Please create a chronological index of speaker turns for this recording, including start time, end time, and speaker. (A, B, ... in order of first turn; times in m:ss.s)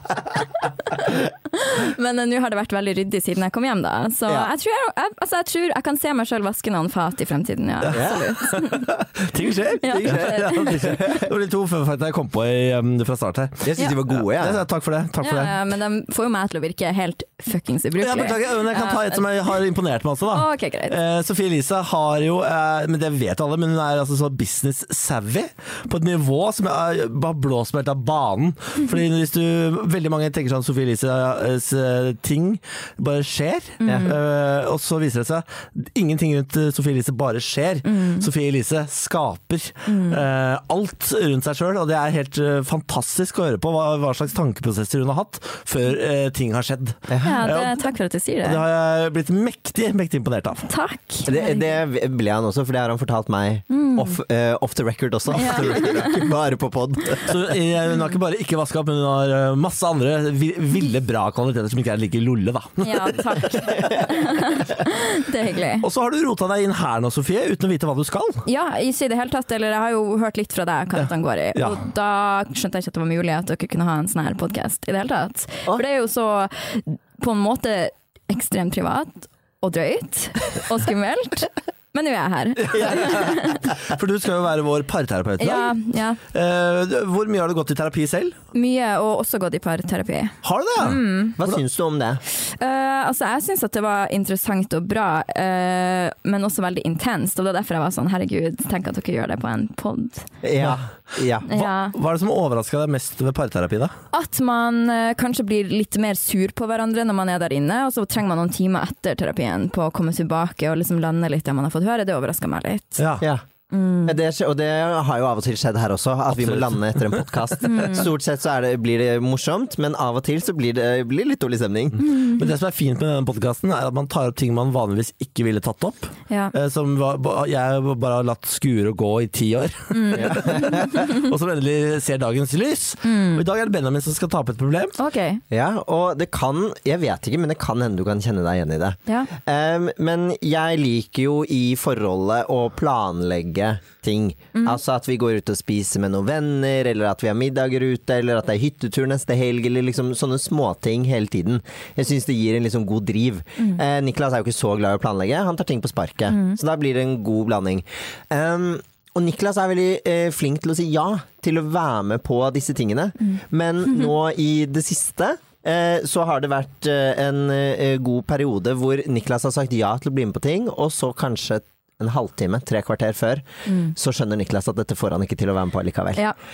0:00.6-0:08.9 A
0:07.9-0:15.6 B
0:07.9-0:08.3 C
0:09.8-0:11.2 A
0:10.0-0:10.3 C
0:13.6-0:14.6 C
0:15.2-0:19.5 A
0:18.0-0:47.8 B
0:20.3-0:21.0 A
0:33.8-0:34.2 A
0:33.8-0:34.1 C
0:37.8-0:38.3 A
0:39.9-0:40.2 A
0:47.1-0:47.4 C
0:47.2-0:48.6 A
0:48.4-0:50.7 B
0:50.7-0:51.8 A
0:51.3-0:57.4 C
0:53.7-0:54.2 A
0:55.3-0:56.2 A
0:57.2-1:03.4 B
1:02.8-1:05.9 A
1:05.8-1:08.4 B
1:08.5-1:23.8 A
1:11.6-1:11.8 B
1:22.7-1:28.4 B
1:25.4-1:26.2 A
1:28.5-1:31.4 A
1:30.4-1:31.6 B
1:31.4-1:32.2 C
1:32.3-1:40.3 A
1:40.4-1:41.5 C
1:41.5-1:42.0 A
1:41.5-1:43.9 B
1:44.1-1:53.0 A
1:53.0-1:53.3 B
1:53.7-1:54.2 A
1:54.1-2:02.0 C
1:56.3-1:57.2 B
1:57.6-1:58.1 A
2:02.0-2:15.0 B
2:02.0-2:02.4 A
2:09.9-2:11.3 A
2:10.2-2:10.9 C
2:13.0-2:13.4 A
2:15.0-2:15.4 A
2:15.5-2:56.2 C
2:24.5-2:24.8 A
2:36.3-2:36.6 A
2:53.7-2:53.9 A